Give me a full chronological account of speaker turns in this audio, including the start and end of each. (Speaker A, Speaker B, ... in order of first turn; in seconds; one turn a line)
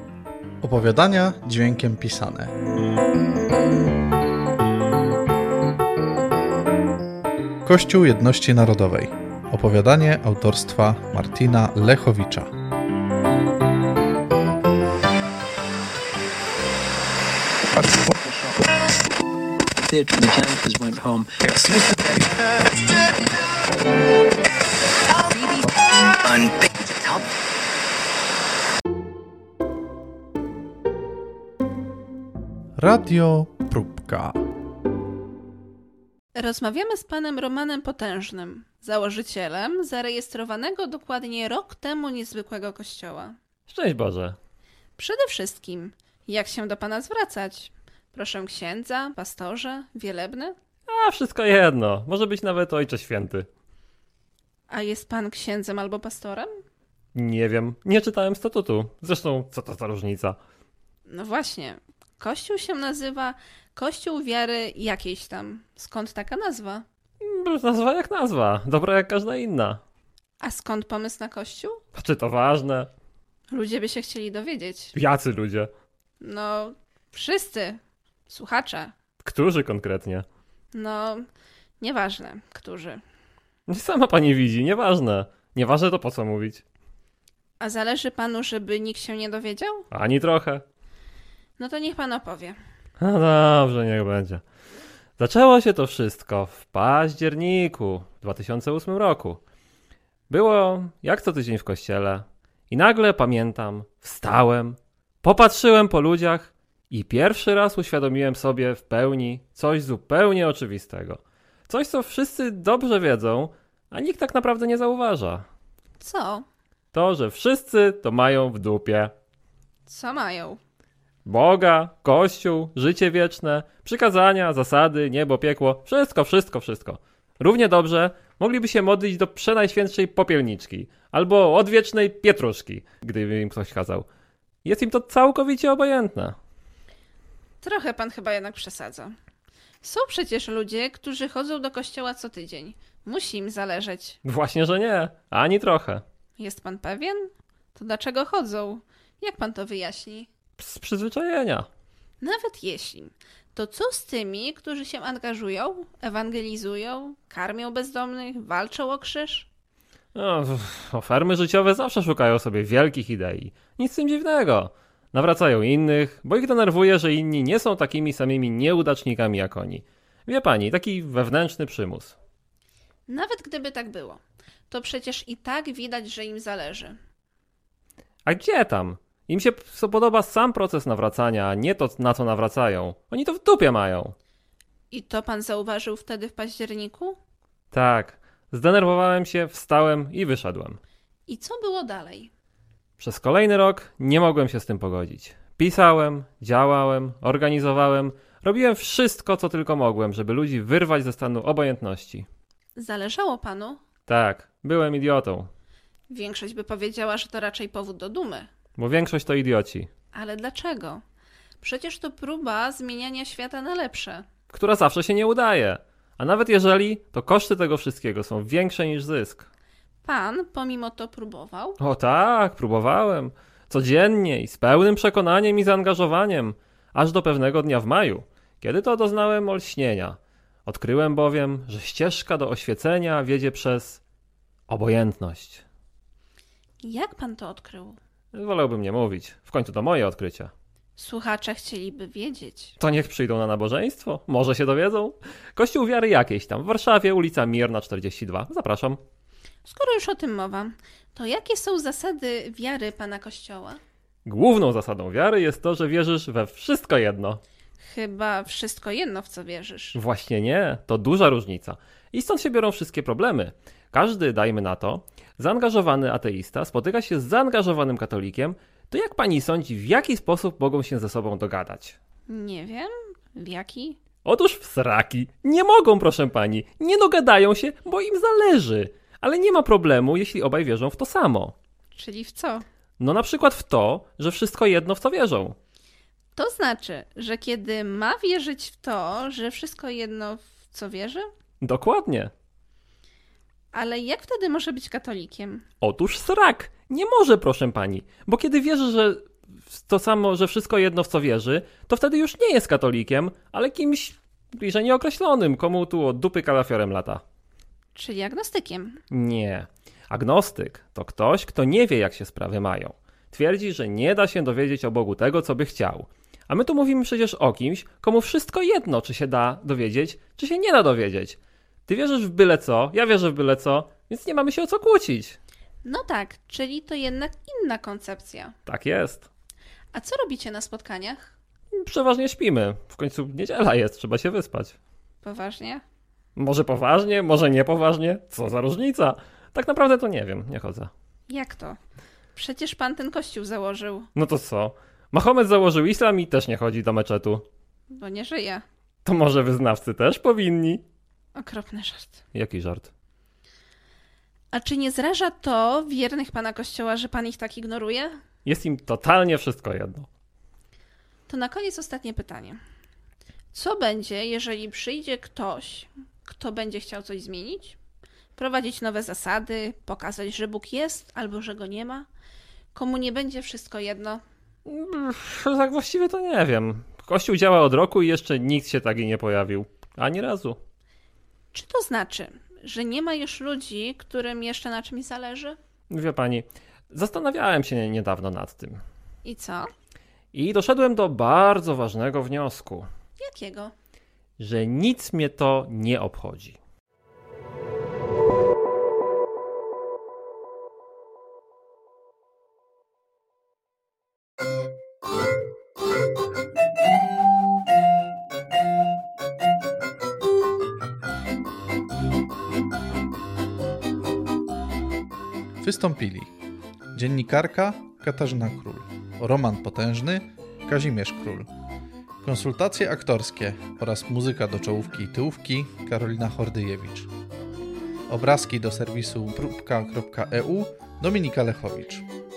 Speaker A: 0.6-2.5
Speaker A: 7.6-12.5
Speaker B: 17.8-18.6
Speaker B: 19.8-22.3
Speaker B: 25.3-25.7
Speaker B: 26.2-27.2
Speaker A: 32.8-34.4
Speaker C: 36.4-43.3
Speaker D: 43.7-44.4
Speaker C: 45.0-50.5
Speaker D: 50.9-53.5
Speaker C: 54.7-56.5
Speaker D: 57.1-60.4
Speaker C: 61.1-66.8
Speaker D: 67.2-69.8
Speaker C: 70.4-71.8
Speaker D: 71.9-72.9
Speaker C: 73.5-74.9
Speaker D: 74.9-75.7
Speaker C: 76.2-78.9
Speaker D: 79.2-80.2
Speaker C: 80.7-81.2
Speaker C: 81.8-83.0
Speaker D: 83.7-86.6
Speaker C: 87.6-89.8
Speaker D: 89.9-90.6
Speaker C: 91.6-92.6
Speaker D: 93.0-94.4
Speaker D: 95.2-99.4
Speaker D: 100.3-115.4
Speaker C: 116.0-116.5
Speaker D: 116.9-119.1
Speaker C: 119.9-120.6
Speaker D: 121.2-134.1
Speaker D: 134.6-136.3
Speaker C: 137.6-139.1
Speaker C: 139.8-144.2
Speaker D: 144.2-146.0
Speaker C: 146.4-150.3
Speaker D: 150.6-151.7
Speaker C: 152.2-159.5
Speaker D: 160.1-172.1
Speaker C: 173.1-176.9
Speaker D: 178.2-184.1
Speaker C: 184.9-187.2
Speaker D: 187.7-190.8
Speaker C: 191.3-192.3
Speaker D: 193.0-202.3
Speaker C: 202.8-203.8
Speaker D: 204.1-205.5
Speaker C: 206.1-208.5
Speaker D: 208.8-209.9
Speaker C: 210.1-211.0
Speaker C: 211.6-214.2
Speaker D: 214.5-219.5
Speaker C: 220.0-221.8
Speaker D: 221.8-234.0
Speaker D: 234.7-235.6
Speaker C: 236.8-238.0
Speaker D: 238.3-240.5
Speaker C: 241.0-242.8
Speaker D: 242.8-249.0
Speaker C: 249.6-253.8
Speaker D: 254.2-257.4
Speaker C: 257.8-260.0
Speaker D: 259.9-272.0
Speaker C: 272.3-274.0
Speaker D: 274.2-281.5
Speaker C: 281.9-282.6
Speaker D: 283.0-285.6
Speaker C: 286.4-291.2
Speaker D: 291.6-292.3
Speaker C: 293.7-295.6
Speaker D: 295.8-307.2
Speaker C: 307.9-309.0
Speaker D: 309.1-325.4
Speaker C: 325.8-328.5
Speaker D: 328.7-329.3
Speaker C: 329.9-331.3
Speaker D: 331.7-334.8
Speaker C: 335.2-335.8
Speaker D: 336.4-340.9
Speaker C: 341.3-341.8
Speaker C: 342.3-344.1
Speaker D: 344.1-347.4
Speaker C: 347.9-348.6
Speaker D: 349.0-350.8
Speaker C: 351.4-352.2
Speaker D: 352.3-352.9
Speaker C: 354.5-358.1
Speaker D: 358.4-360.1
Speaker C: 361.3-362.6
Speaker C: 363.5-367.8
Speaker C: 368.4-372.1
Speaker C: 372.7-374.2
Speaker D: 374.6-380.6
Speaker C: 381.5-385.6
Speaker D: 385.9-388.8
Speaker C: 389.2-389.7
Speaker D: 390.3-392.9
Speaker C: 393.2-393.7
Speaker D: 394.4-396.6
Speaker A: 415.6-416.3
Speaker A: 416.9-421.5
Speaker A: 422.2-427.1
Speaker A: 428.1-432.1